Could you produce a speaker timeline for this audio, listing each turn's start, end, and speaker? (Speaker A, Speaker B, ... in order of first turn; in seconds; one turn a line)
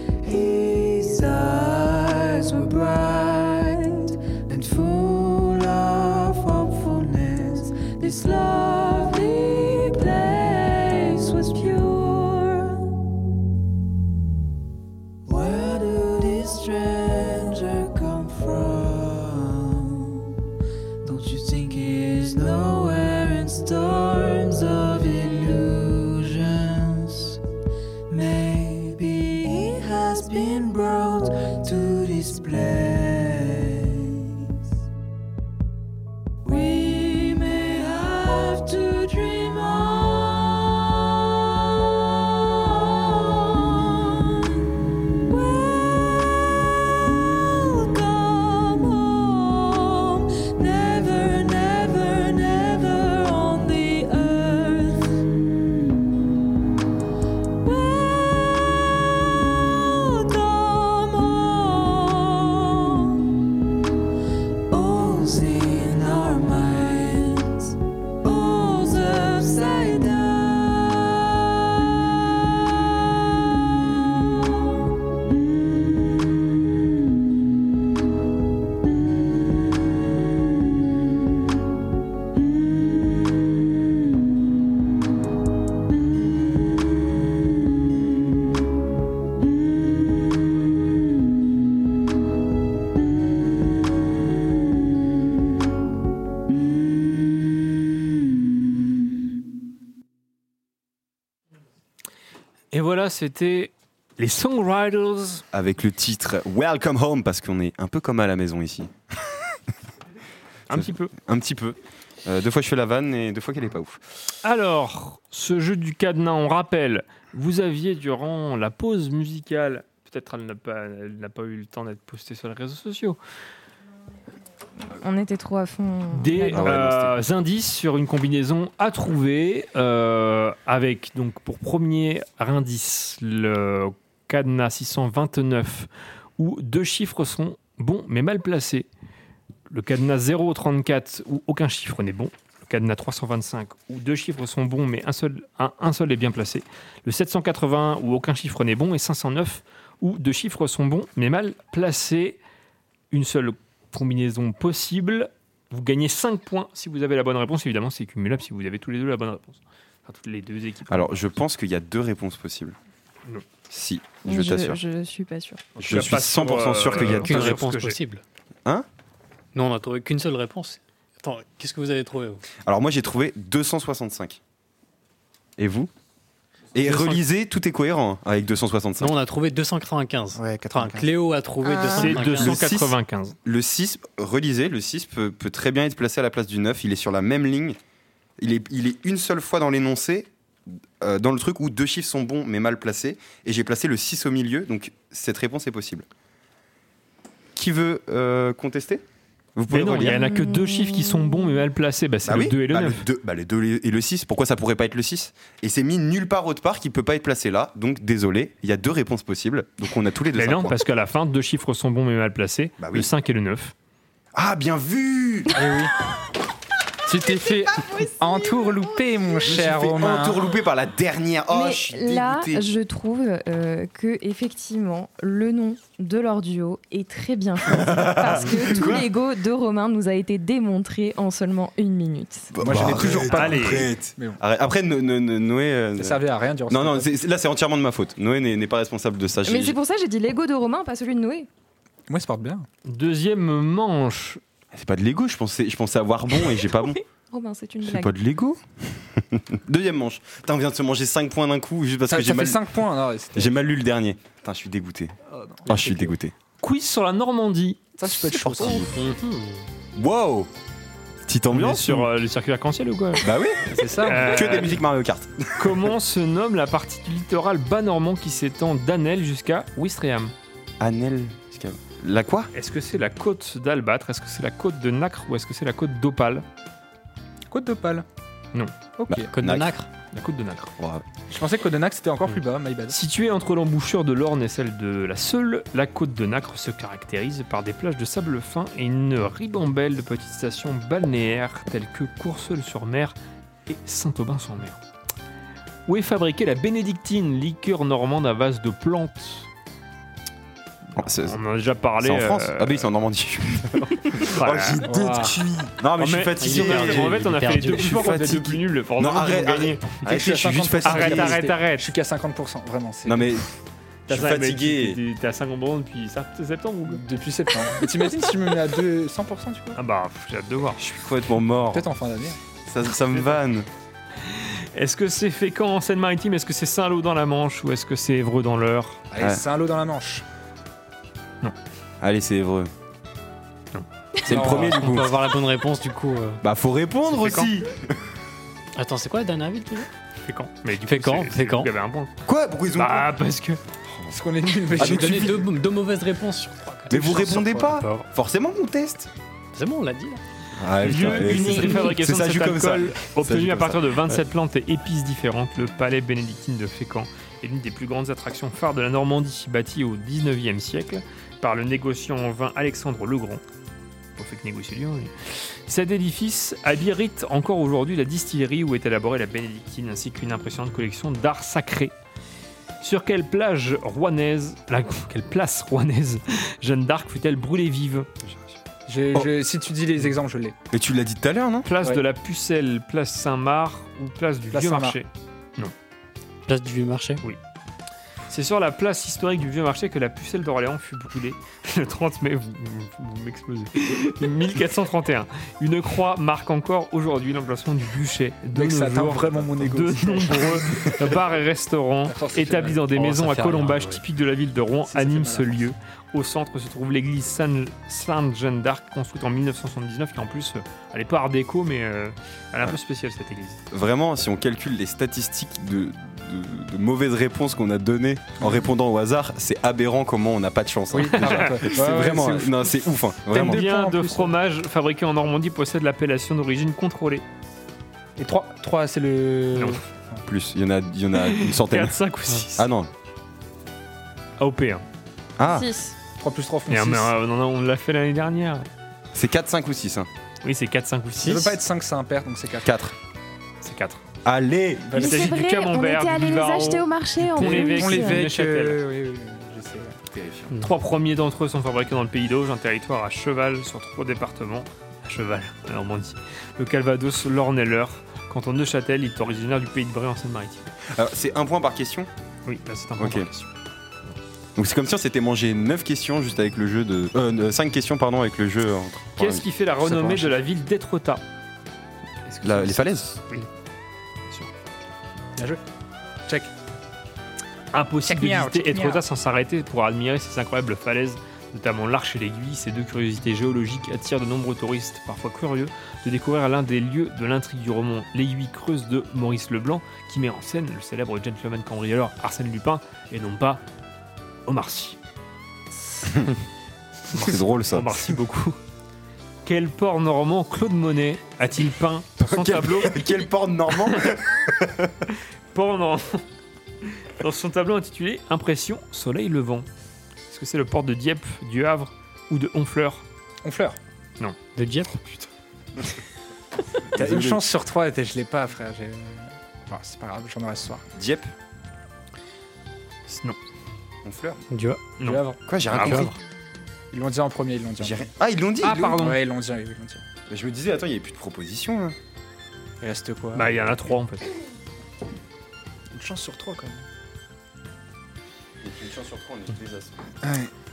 Speaker A: 0.2-12.9
Speaker A: 15.3-20.3
Speaker A: 21.0-27.4
Speaker A: 28.1-34.4
Speaker A: 36.5-41.0
Speaker A: 42.5-44.4
Speaker A: 45.3-55.2
Speaker A: 57.6-63.1
Speaker A: 64.7-67.7
Speaker A: 68.2-71.3
Speaker B: 102.7-105.5
Speaker C: 105.5-108.9
Speaker B: 110.7-111.1
Speaker C: 110.7-114.0
Speaker B: 114.4-123.2
Speaker D: 124.9-126.7
Speaker B: 126.1-138.9
Speaker C: 126.5-127.3
Speaker B: 139.7-152.4
Speaker B: 153.1-161.3
Speaker C: 160.9-162.8
Speaker C: 163.7-164.8
Speaker D: 164.2-165.6
Speaker C: 165.8-167.6
Speaker B: 165.8-168.0
Speaker E: 167.1-168.2
Speaker E: 169.5-172.4
Speaker C: 172.6-174.4
Speaker C: 175.6-175.9
Speaker C: 176.7-179.2
Speaker E: 176.9-177.2
Speaker E: 179.0-182.6
Speaker F: 180.4-181.1
Speaker D: 181.6-182.2
Speaker B: 182.0-183.4
Speaker C: 182.3-187.8
Speaker C: 188.4-190.3
Speaker C: 191.0-196.1
Speaker C: 197.6-199.0
Speaker C: 199.6-200.2
Speaker B: 199.7-203.1
Speaker D: 200.0-201.6
Speaker C: 202.2-210.8
Speaker B: 210.3-213.7
Speaker C: 212.8-213.1
Speaker C: 214.3-215.6
Speaker F: 215.6-215.9
Speaker F: 217.1-220.6
Speaker D: 217.8-218.1
Speaker C: 219.4-222.7
Speaker D: 221.5-232.5
Speaker C: 227.7-229.1
Speaker C: 232.5-239.8
Speaker F: 232.6-234.4
Speaker B: 232.9-233.9
Speaker F: 236.0-237.1
Speaker D: 239.5-241.5
Speaker F: 242.1-242.7
Speaker B: 242.9-244.4
Speaker C: 244.7-247.0
Speaker D: 246.6-248.1
Speaker C: 247.8-252.7
Speaker F: 252.1-253.7
Speaker C: 253.3-255.2
Speaker F: 255.3-255.7
Speaker C: 255.7-256.3
Speaker E: 255.7-256.1
Speaker B: 256.6-257.9
Speaker F: 258.0-258.9
Speaker C: 258.2-259.0
Speaker E: 258.9-259.6
Speaker C: 260.0-260.5
Speaker C: 261.3-262.1
Speaker B: 261.5-263.2
Speaker C: 263.2-265.9
Speaker F: 263.7-264.7
Speaker B: 264.0-264.8
Speaker B: 265.6-270.3
Speaker C: 270.8-272.5
Speaker B: 272.5-276.4
Speaker F: 277.5-278.1
Speaker F: 279.0-279.3
Speaker C: 279.1-279.8
Speaker E: 279.3-279.9
Speaker B: 280.1-280.7
Speaker C: 280.8-281.0
Speaker F: 281.3-283.0
Speaker B: 282.9-293.1
Speaker B: 293.7-294.8
Speaker B: 295.9-299.5
Speaker C: 301.0-301.4
Speaker B: 301.0-302.9
Speaker C: 302.0-311.4
Speaker B: 304.1-304.9
Speaker F: 304.9-305.5
Speaker B: 305.9-309.9
Speaker E: 306.4-308.1
Speaker F: 310.0-313.4
Speaker B: 310.8-311.9
Speaker C: 313.1-313.5
Speaker C: 314.1-315.0
Speaker B: 314.1-317.0
Speaker F: 316.9-319.8
Speaker B: 319.8-320.8
Speaker C: 320.8-321.9
Speaker F: 321.7-322.4
Speaker C: 322.6-323.7
Speaker B: 323.1-323.4
Speaker B: 324.2-329.0
Speaker F: 329.1-330.2
Speaker C: 332.0-332.7
Speaker C: 334.3-335.1
Speaker F: 334.3-334.8
Speaker E: 334.4-336.4
Speaker C: 336.4-337.8
Speaker B: 337.1-337.5
Speaker E: 338.8-339.9
Speaker B: 340.2-342.1
Speaker E: 340.9-341.7
Speaker C: 342.2-343.1
Speaker B: 342.8-343.6
Speaker C: 343.9-344.1
Speaker F: 344.1-345.4
Speaker C: 344.8-345.4
Speaker E: 344.8-348.1
Speaker C: 346.9-349.1
Speaker F: 346.9-347.7
Speaker E: 349.5-350.2
Speaker C: 350.6-354.0
Speaker B: 350.8-363.4
Speaker B: 364.2-371.9
Speaker B: 372.8-378.1
Speaker F: 378.9-380.6
Speaker C: 380.7-381.7
Speaker B: 381.6-385.7
Speaker F: 384.5-385.0
Speaker E: 386.5-387.2
Speaker B: 388.3-413.6
Speaker F: 398.5-401.2
Speaker F: 402.1-402.9
Speaker E: 402.9-404.0
Speaker F: 404.9-405.7
Speaker C: 413.7-423.6
Speaker F: 418.4-418.7
Speaker F: 420.9-424.3
Speaker B: 421.2-421.5
Speaker B: 423.3-427.2
Speaker F: 428.2-430.2
Speaker C: 430.3-432.0
Speaker B: 431.1-432.7
Speaker C: 432.6-432.9
Speaker B: 434.4-434.8
Speaker C: 435.4-435.7
Speaker D: 435.4-435.9
Speaker F: 436.2-437.1
Speaker B: 436.7-438.7
Speaker C: 439.1-440.1
Speaker B: 440.4-441.5
Speaker F: 441.2-442.8
Speaker C: 442.6-442.9
Speaker B: 443.6-444.0
Speaker C: 444.2-445.0
Speaker F: 444.8-445.3
Speaker D: 445.0-448.2
Speaker B: 445.0-448.8
Speaker F: 447.4-450.0
Speaker C: 450.1-450.5
Speaker B: 450.6-460.7
Speaker C: 460.9-462.1
Speaker B: 462.5-463.5
Speaker C: 463.0-463.3
Speaker C: 464.6-469.5
Speaker B: 469.2-471.2
Speaker F: 469.9-470.3
Speaker B: 472.3-473.5
Speaker C: 472.4-473.1
Speaker F: 475.4-475.6
Speaker F: 476.3-476.5
Speaker B: 477.7-493.6
Speaker F: 478.1-479.0
Speaker B: 494.5-495.0
Speaker C: 497.1-498.1
Speaker B: 497.1-498.6
Speaker B: 499.4-504.1
Speaker C: 502.2-504.9
Speaker B: 505.5-506.2
Speaker B: 506.8-509.7
Speaker B: 510.3-513.0
Speaker F: 513.4-513.8
Speaker E: 514.5-515.0
Speaker C: 516.9-517.4
Speaker F: 517.0-520.8
Speaker C: 521.0-521.3
Speaker B: 523.1-523.4
Speaker C: 524.0-524.4
Speaker E: 524.5-524.9
Speaker B: 525.0-526.2
Speaker F: 525.0-525.4
Speaker C: 525.5-526.1
Speaker E: 525.8-526.1
Speaker F: 526.9-528.0
Speaker C: 527.8-529.1
Speaker B: 528.6-529.2
Speaker F: 528.6-530.0
Speaker C: 530.3-532.0
Speaker F: 532.8-533.8
Speaker B: 533.4-534.3
Speaker F: 535.9-536.9
Speaker C: 538.6-540.1
Speaker F: 540.2-540.5